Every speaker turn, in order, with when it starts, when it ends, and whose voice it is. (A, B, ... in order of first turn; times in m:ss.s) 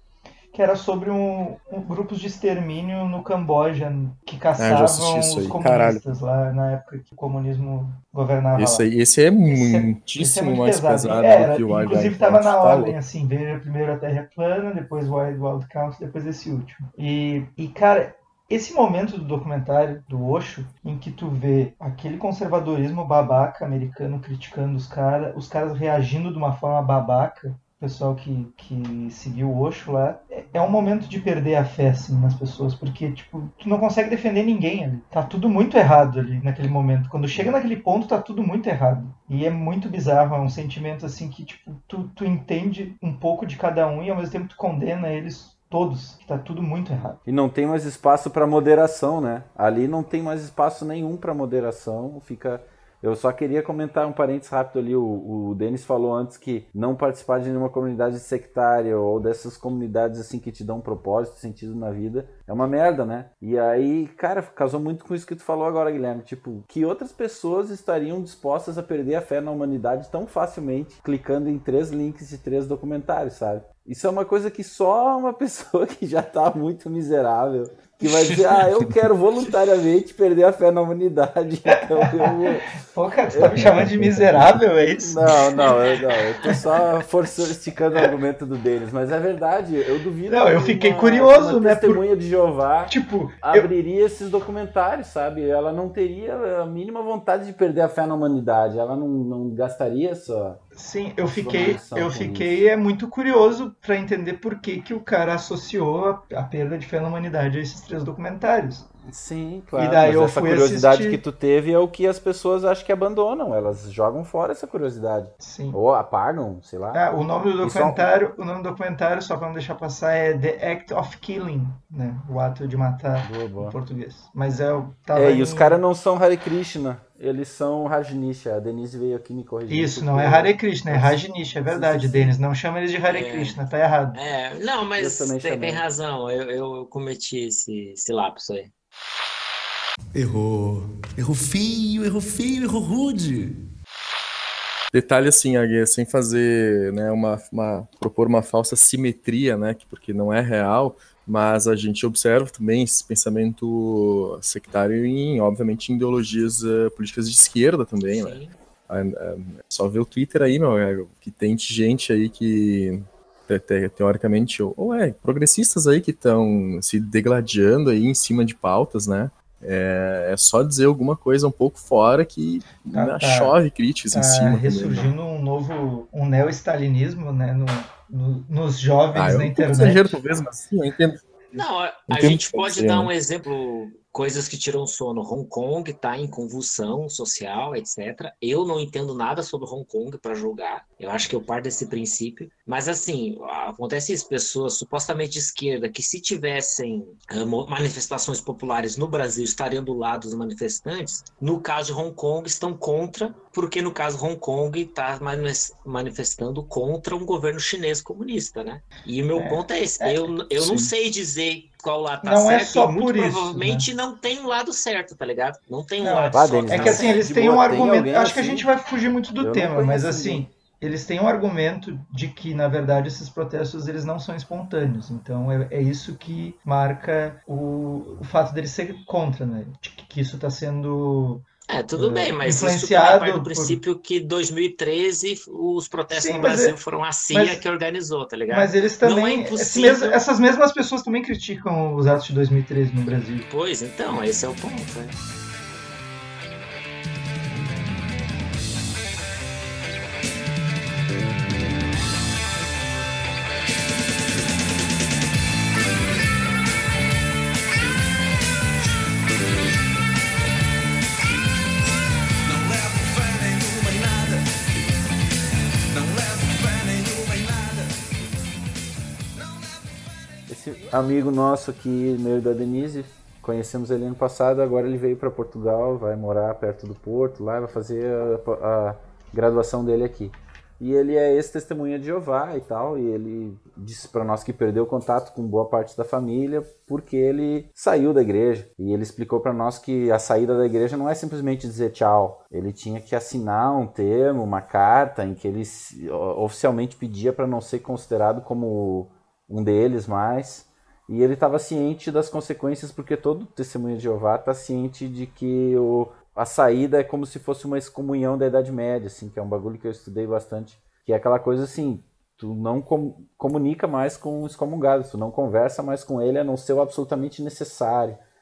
0:00.5-0:08.9 A
0:04.6-0:06.0 B
0:08.5-0:13.0 B
0:09.5-0:47.2 A
0:47.2-1:22.7 C
1:22.0-1:22.3 A
1:22.9-1:25.7 A
1:23.3-1:40.6 C
1:25.6-1:26.5 D
1:30.3-1:32.0 A
1:32.9-1:33.7 A
1:40.7-1:48.9 A
1:41.2-1:42.6 C
1:49.0-1:57.0 C
1:49.8-1:51.2 A
1:55.4-1:55.8 A
1:56.9-2:05.8 A
1:57.6-1:58.1 C
2:03.2-2:03.8 C
2:05.1-2:12.4 C
2:09.7-2:14.2 A
2:13.1-2:13.6 D
2:14.1-2:18.7 D
2:15.0-2:15.8 C
2:20.1-2:23.5 E
2:24.9-2:55.1 B
2:38.0-2:38.5 D
2:52.9-2:53.6 A
2:54.1-3:00.2 A
2:59.1-3:01.6 B
3:01.5-3:37.9 D
3:02.1-3:03.1 B
3:29.3-3:30.8 A
3:32.2-3:33.9 A
3:36.0-3:53.8 A
3:36.3-3:38.7 C
3:39.4-3:40.5 C
3:51.7-4:00.2 D
3:56.1-3:56.7 A
3:57.3-3:57.6 A
3:58.5-4:03.5 A
4:03.5-4:05.1 D
4:22.4-4:24.4 E
4:25.9-4:28.0 E
4:29.4-4:30.1 E
4:30.5-5:18.2 C